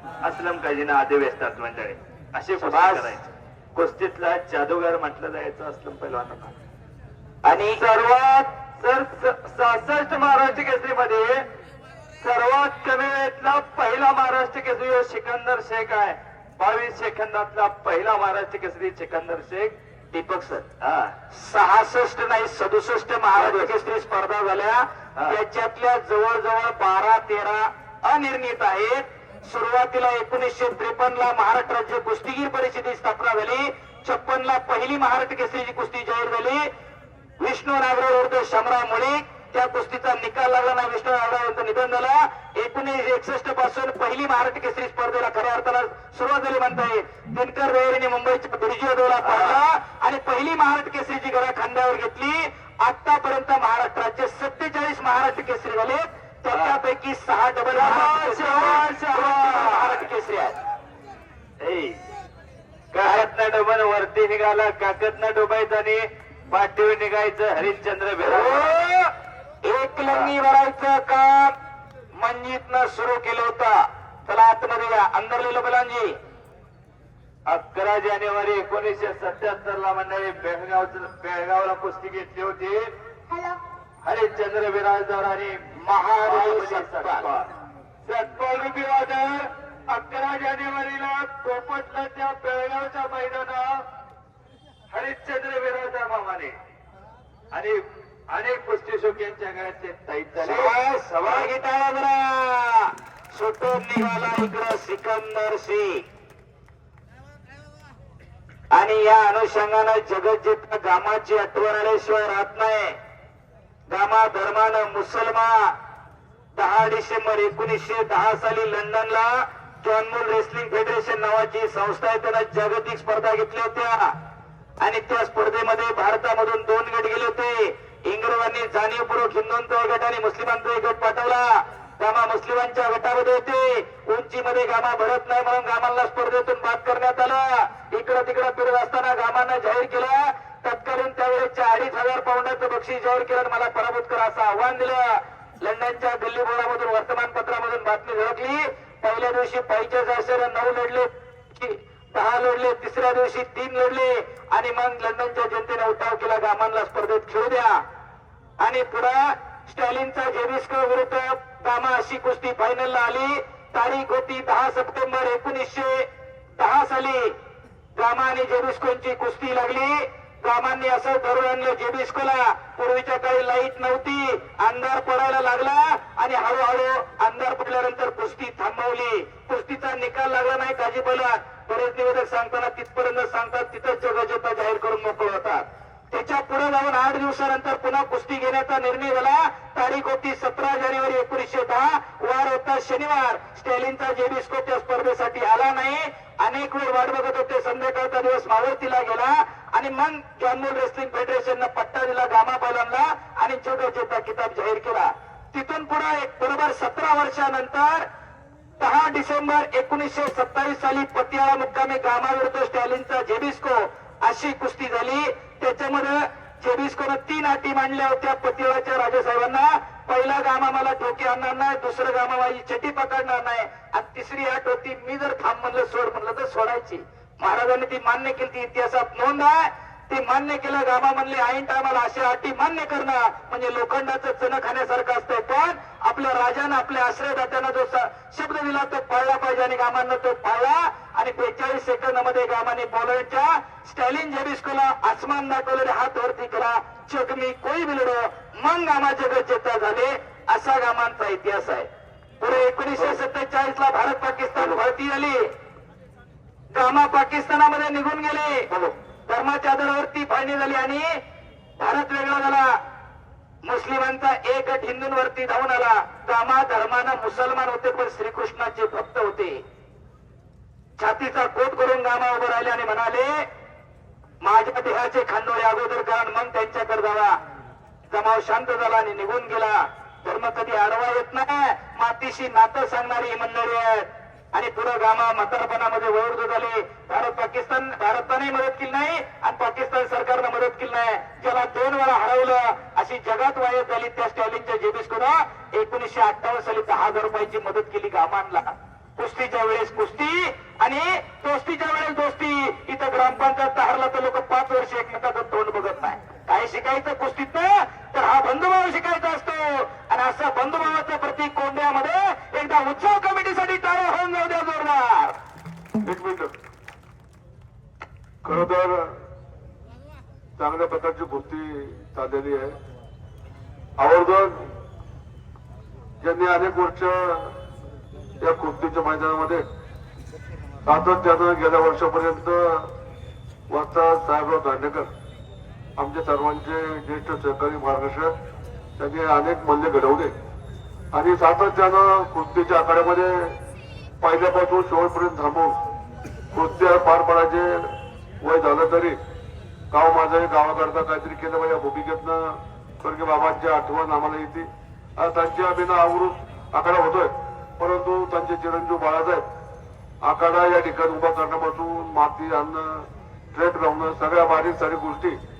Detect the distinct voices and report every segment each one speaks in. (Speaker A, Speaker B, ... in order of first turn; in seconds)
Speaker A: 0.2-6.5, 7.7-11.5, 12.2-19.8, 20.8-21.1, 23.3-23.7, 49.2-49.6, 56.5-56.8, 57.7-60.1, 61.6-62.0, 62.9-68.7, 77.5-82.9, 84.0-85.7, 86.2-87.5, 88.0-93.8, 94.9-96.6, 97.5-101.6
Speaker B: 2.6-3.1, 7.4-7.8, 20.1-20.7, 21.3-36.6, 37.4-60.6, 63.0-63.3, 68.2-69.1, 69.6-71.5, 72.1-76.2, 85.8-87.3, 100.4-106.0, 108.7-113.0, 113.9-115.7, 116.5-124.1, 124.8-157.8, 158.6-166.1, 166.6-167.3, 167.9-208.1, 208.8-251.9, 252.4-255.4, 256.7-261.2, 261.8-262.7, 263.6-269.6, 271.0-273.4, 274.4-277.4, 278.1-315.3
Speaker C: 316.0-316.5, 318.4-319.2, 320.6-322.8, 324.0-324.7, 326.2-327.5, 328.4-329.6, 330.8-332.9, 333.7-335.1, 336.0-338.3, 339.0-340.3, 341.1-343.6, 344.2-345.8, 346.5-349.2, 349.9-359.4, 360.2-365.4